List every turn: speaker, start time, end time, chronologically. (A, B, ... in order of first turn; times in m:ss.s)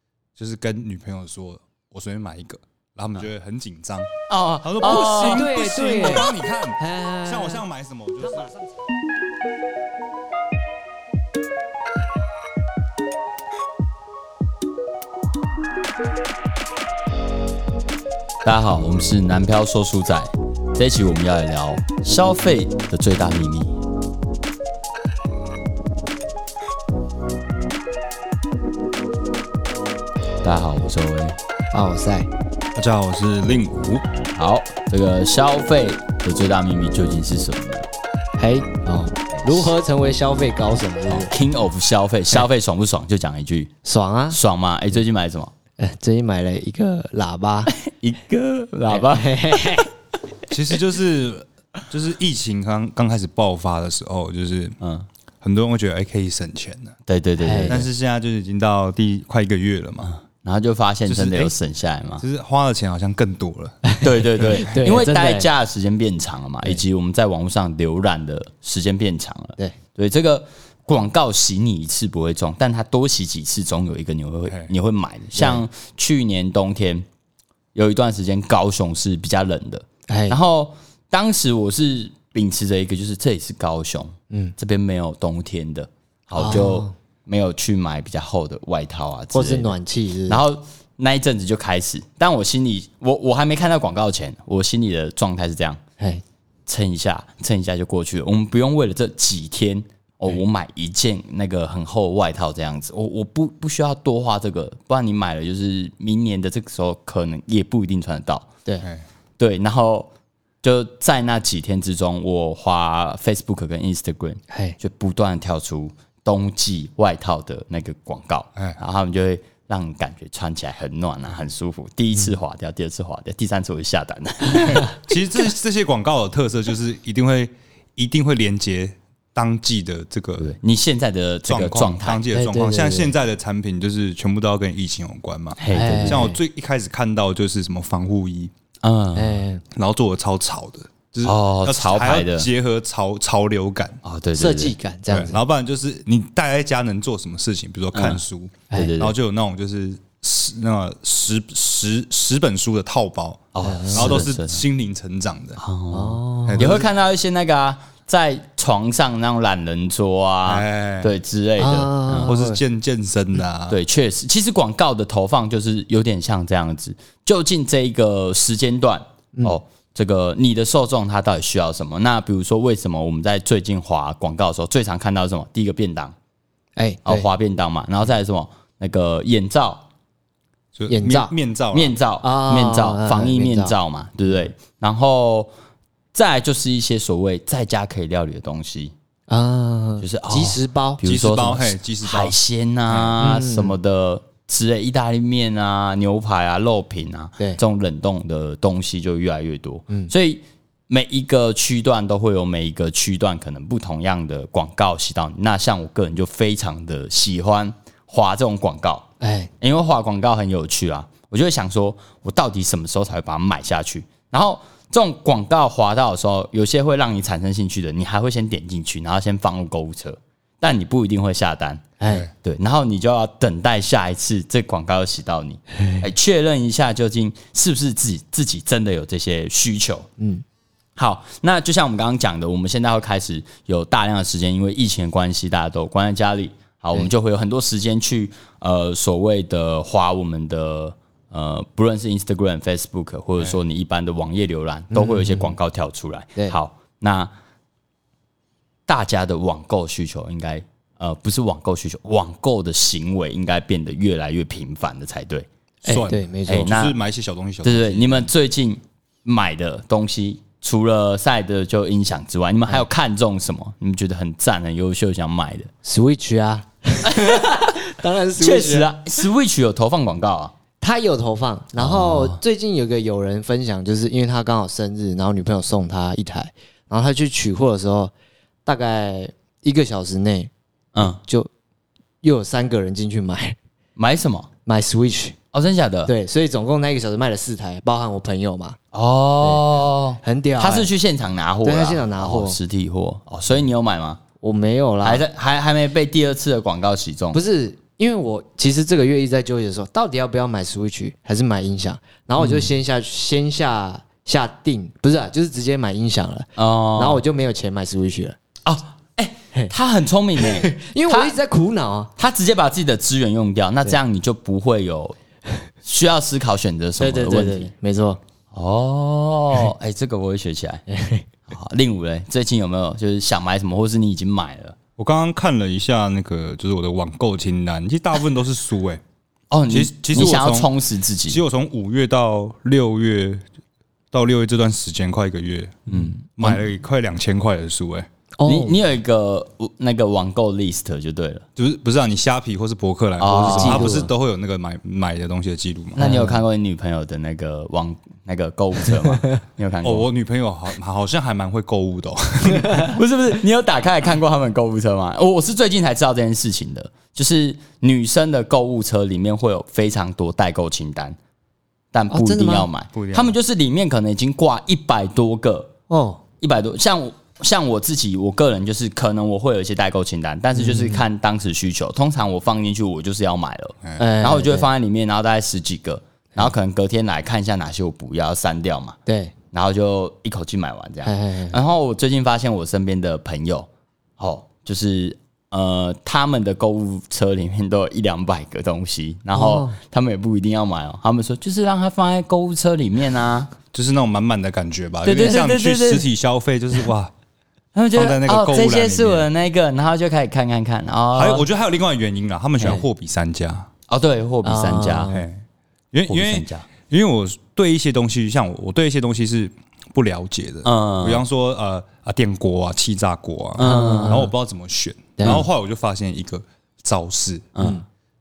0:00.4-0:04.1 A
0:04.3-0:05.5 B
0:04.6-0:08.7 A
0:04.8-0:07.6 C
0:18.4-0:23.8 B
0:30.4-0:31.4 B
0:31.7-0:32.3 C
0:32.8-0:34.0 A
0:34.4-0:37.9 B
0:38.4-0:41.3 C
0:39.3-0:39.7 B
0:41.1-0:43.7 B
0:43.8-0:44.4 C
0:44.3-0:45.5 B
0:45.8-0:47.7 C
0:47.7-0:49.8 B
0:48.9-0:49.9 C
0:50.5-0:54.8 A
0:54.8-0:55.1 B
0:55.4-0:56.9 A
0:57.1-0:57.9 B
0:57.4-0:57.8 C
0:57.7-1:00.1 A
1:00.4-1:02.2 B
1:01.1-1:01.5 A
1:02.2-1:03.8 A
1:03.8-1:05.5 C
1:04.0-1:17.0 B
1:17.7-1:29.7 B
1:20.1-1:20.4 C
1:26.4-1:26.9 C
1:29.3-1:30.4 C
1:30.3-1:35.8 B
1:36.7-1:48.5 B
1:49.4-1:50.1 B
1:50.6-2:04.9 B
1:54.5-1:54.8 C
2:04.6-2:10.6 A
2:10.4-2:12.2 B
2:11.5-2:18.5 A
2:12.3-2:13.1 C
2:15.6-2:16.3 B
2:15.7-2:16.4 C
2:18.8-2:19.4 B
2:19.2-2:19.6 C
2:19.7-2:24.0 A
2:21.2-2:22.5 B
2:24.0-2:24.8 B
2:24.3-2:25.4 C
2:25.1-2:35.6 A
2:27.9-2:28.2 B
2:28.7-2:29.1 B
2:33.5-2:34.6 B
2:33.6-2:34.2 C
2:35.6-2:42.3 B
2:35.9-2:36.8 C
2:36.5-2:36.8 A
2:40.4-2:41.2 A
2:41.6-2:42.6 C
2:42.2-2:43.8 A
2:43.7-2:56.1 B
2:56.8-2:57.2 C
2:57.1-2:59.8 B
3:00.7-3:02.0 A
3:00.9-3:01.3 C
3:01.7-3:05.5 B
3:02.2-3:03.8 C
3:06.1-3:08.9 B
3:09.3-3:11.0 C
3:10.0-3:29.1 B
3:11.0-3:12.3 A
3:12.9-3:13.2 A
3:13.2-3:13.7 C
3:29.2-3:29.5 C
3:29.6-3:50.1 B
3:42.0-3:42.3 C
3:45.8-3:46.0 C
3:50.2-3:50.4 C
3:51.0-4:07.3 B
4:04.9-4:05.6 C
4:08.9-4:15.5 B
4:15.8-4:16.7 C
4:15.8-4:18.3 A
4:16.5-4:17.0 B
4:17.6-4:25.7 B
4:25.8-4:28.9 C
4:27.0-4:27.8 B
4:28.4-4:30.5 B
4:30.8-4:38.1 C
4:31.8-4:32.3 B
4:38.6-4:41.5 C
4:40.9-4:41.2 B
4:42.2-4:43.6 C
4:44.0-4:44.5 B
4:44.6-4:45.4 C
4:45.5-4:46.1 B
4:46.0-4:48.8 C
4:48.9-4:54.2 B
4:50.2-4:50.9 C
4:51.6-4:52.6 C
4:54.4-4:55.2 C
4:55.0-4:57.4 B
4:57.3-5:08.4 C
5:02.4-5:02.7 B
5:06.6-5:07.2 B
5:08.6-5:11.4 B
5:10.4-5:12.1 C
5:12.2-5:15.2 B
5:15.8-5:17.7 B
5:17.0-5:18.2 C
5:18.5-5:20.8 B
5:20.9-5:21.2 C
5:21.5-5:24.8 B
5:25.0-5:29.0 A
5:29.5-5:31.4 B
5:29.7-5:30.7 A
5:31.3-5:33.4 A
5:34.1-5:38.1 A
5:35.9-5:36.6 B
5:38.4-5:38.8 C
5:38.4-5:41.4 B
5:41.6-5:46.0 A
5:43.2-5:44.0 B
5:43.4-5:44.1 C
5:46.0-5:46.4 C
5:46.0-5:50.1 B
5:49.8-5:53.0 A
5:52.9-6:01.2 B
6:01.9-6:05.7 B
6:02.1-6:02.7 C
6:02.9-6:03.3 A
6:05.9-6:06.2 C
6:06.4-6:19.0 B
6:10.6-6:11.0 C
6:14.0-6:14.7 C
6:19.0-6:19.3 C
6:19.5-6:23.7 B
6:21.0-6:21.6 C
6:24.2-6:33.5 B
6:29.3-6:29.8 C
6:33.7-6:37.1 A
6:35.0-6:36.0 B
6:37.7-6:41.4 B
6:37.9-6:39.3 A
6:41.1-6:43.7 A
6:43.9-6:45.2 B
6:44.4-6:45.2 C
6:45.1-6:57.5 A
6:46.1-6:46.6 B
6:50.6-6:51.2 B
6:53.6-6:54.3 B
6:53.6-6:54.3 C
6:55.2-6:55.4 C
6:57.5-6:57.8 B